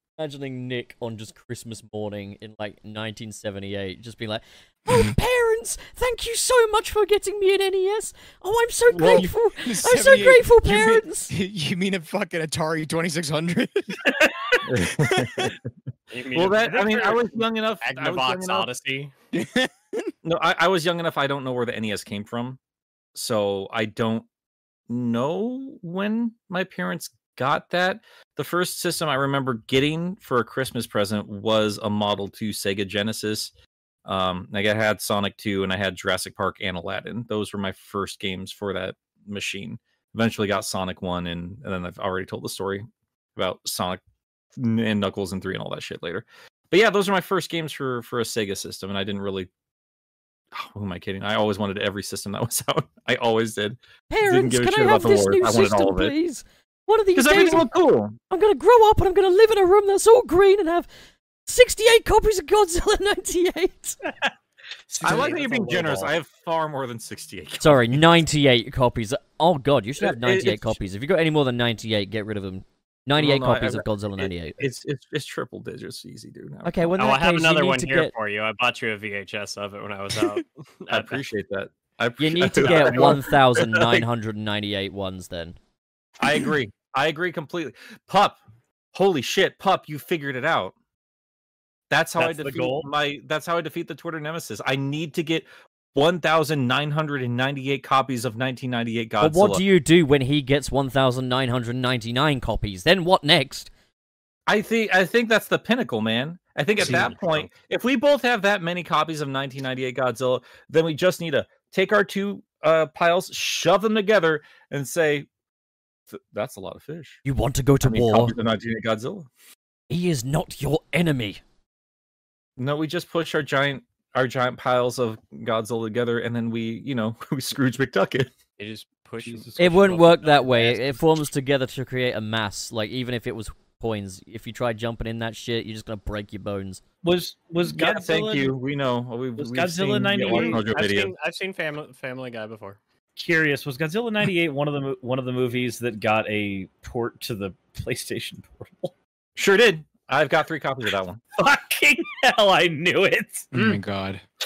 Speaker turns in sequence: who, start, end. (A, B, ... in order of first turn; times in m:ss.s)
0:00.2-0:11.3 A
0:08.9-0:09.3 B
0:09.1-0:14.0 C
0:14.2-0:14.6 D
0:14.6-0:15.6 B
0:16.1-0:19.1 E
0:16.3-0:18.7 B
0:19.3-0:20.1 C
0:20.2-0:22.6 B
0:23.1-0:24.3 B
0:24.9-0:33.5 B
0:34.0-0:44.0 B
0:44.6-0:49.5 B
0:50.5-0:56.1 B
0:54.1-0:57.7 A
0:57.1-0:58.2 B
0:58.2-1:00.9 A
1:01.4-1:04.0 A
1:04.9-1:06.1 D
1:05.0-1:08.0 B
1:07.6-1:14.6 A
1:10.0-1:10.8 B
1:13.2-1:17.0 B
1:16.6-1:18.1 A
1:17.0-1:21.2 E
1:20.9-1:24.0 B
1:22.2-1:25.6 A
1:22.6-1:23.1 E
1:26.2-1:28.4 B
1:28.9-1:30.7 B
1:31.9-1:39.6 B
1:32.2-1:32.9 D
1:39.2-1:43.7 A
1:44.5-1:55.3 B
1:46.8-1:47.5 E
1:56.1-1:57.2 B
1:57.2-1:58.3 A
1:57.8-1:59.3 B
1:59.9-2:01.4 A
2:02.6-2:08.3 B
2:08.6-2:10.1 E
2:09.2-2:11.3 D
2:09.6-2:16.8 A
2:17.0-2:18.6 D
2:17.6-2:21.1 B
2:19.4-2:20.7 D
2:20.3-2:22.8 E
2:23.2-2:28.9 D
2:29.4-2:31.2 B
2:31.4-2:33.5 D
2:33.5-2:34.2 C
2:33.5-2:33.8 E